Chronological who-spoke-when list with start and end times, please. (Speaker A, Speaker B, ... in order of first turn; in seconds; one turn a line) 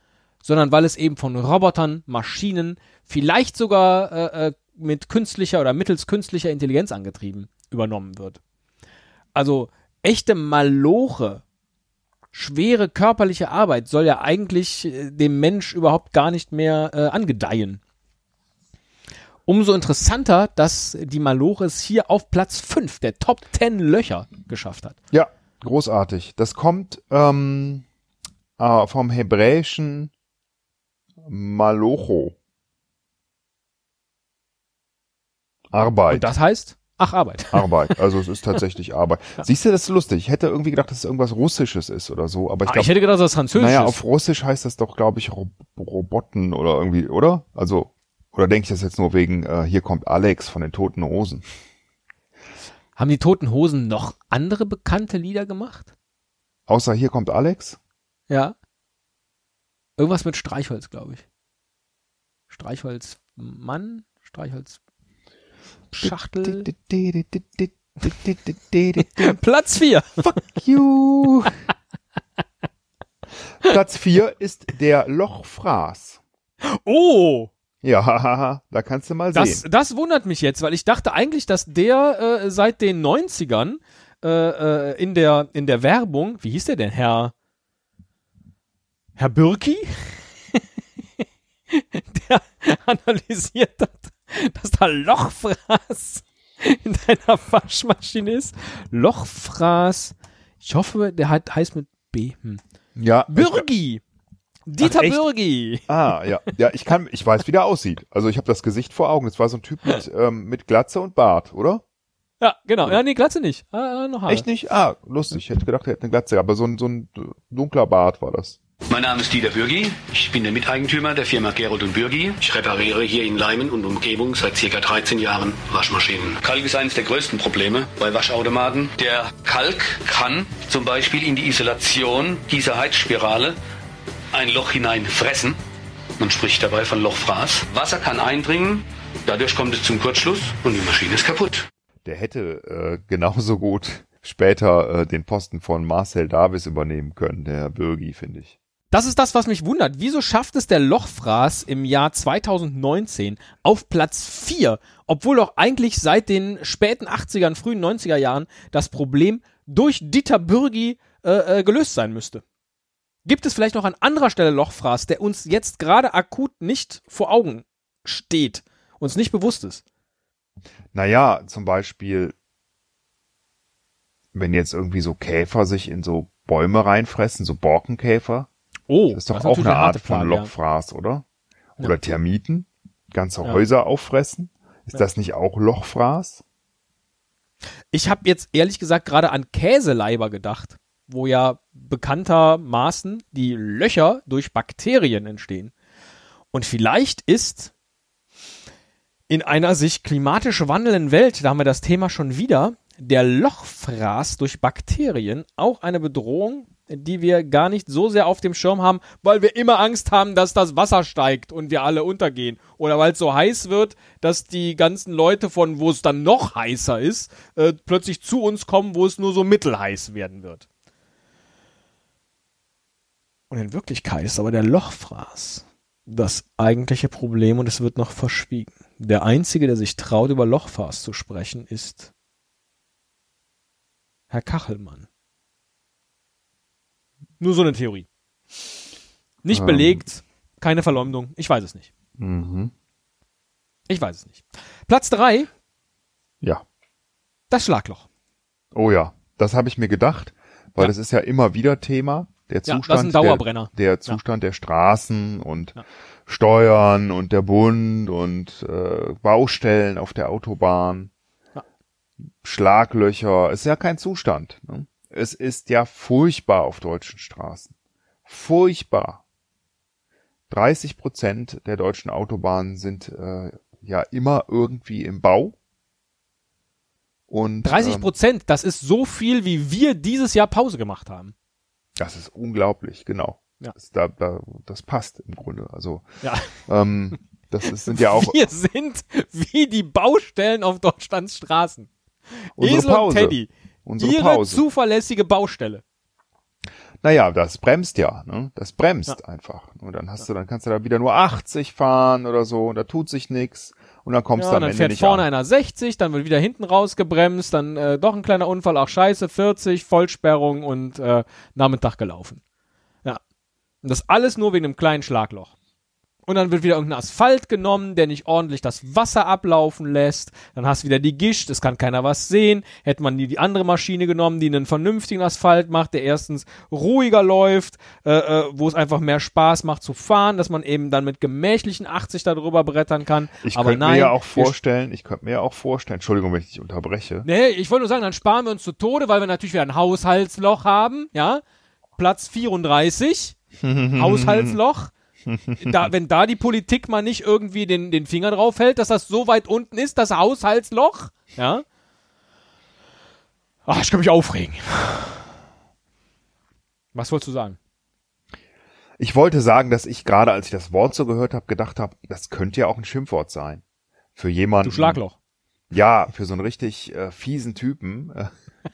Speaker A: 0.4-8.4
Speaker A: 9.3-11.4
Speaker A: 12.3-17.8
Speaker A: 19.5-25.0
Speaker B: 25.1-27.9
Speaker B: 28.6-30.1
Speaker B: 31.2-32.4
Speaker B: 35.7-36.3
Speaker A: 36.1-37.7
Speaker B: 37.5-42.9
Speaker A: 42.7-44.0
Speaker B: 43.5-51.5
Speaker A: 53.0-55.9
Speaker B: 56.7-57.8
Speaker A: 58.3-58.6
Speaker A: 60.0-61.2
Speaker A: 62.5-64.8
Speaker A: 65.9-66.7
Speaker B: 66.0-69.4
Speaker A: 69.0-70.2
Speaker B: 70.2-71.5
Speaker B: 73.6-76.2
Speaker A: 76.6-77.5
Speaker B: 77.8-79.6
Speaker A: 79.3-87.3
Speaker A: 89.2-90.2
Speaker A: 91.7-102.6
Speaker B: 103.0-103.7
Speaker A: 103.3-104.0
Speaker A: 104.7-105.9
Speaker B: 104.8-105.3
Speaker B: 105.9-111.8
Speaker A: 112.4-114.5
Speaker B: 114.3-118.6
Speaker C: 118.9-133.6
Speaker C: 134.3-135.6
Speaker C: 136.2-141.7
Speaker B: 142.1-148.6
Speaker A: 148.9-162.4
Speaker A: 163.2-169.8
Speaker B: 170.9-172.3
Speaker B: 174.3-178.5
Speaker A: 178.9-180.5
Speaker B: 179.1-181.2
Speaker B: 181.8-186.4
Speaker A: 187.9-195.7
Speaker A: 196.5-197.7
Speaker A: 199.3-220.7
Speaker A: 223.5-232.1
Speaker A: 234.3-235.1
Speaker A: 237.4-238.1
Speaker A: 239.4-241.9
Speaker B: 239.5-240.0
Speaker B: 242.2-242.7
Speaker A: 243.9-245.5
Speaker A: 247.5-248.1
Speaker B: 248.7-261.1
Speaker A: 252.7-254.2
Speaker B: 262.4-267.7
Speaker B: 268.3-269.2
Speaker B: 270.5-275.6
Speaker B: 277.3-278.1
Speaker A: 277.6-281.3
Speaker B: 282.0-286.1
Speaker A: 286.2-286.6
Speaker B: 286.6-288.4
Speaker A: 287.9-291.9
Speaker A: 292.4-295.8
Speaker B: 292.6-294.6
Speaker B: 297.0-305.3
Speaker A: 304.4-312.4
Speaker A: 313.8-315.5
Speaker A: 316.3-334.6
Speaker B: 333.4-337.3
Speaker A: 337.2-341.4
Speaker A: 342.0-343.4
Speaker B: 343.6-344.6
Speaker A: 343.9-344.9
Speaker B: 345.3-345.9
Speaker A: 345.6-351.6
Speaker A: 353.7-355.3
Speaker A: 356.9-357.6
Speaker B: 359.0-363.6
Speaker B: 364.2-365.0
Speaker A: 364.6-365.1
Speaker B: 365.7-368.3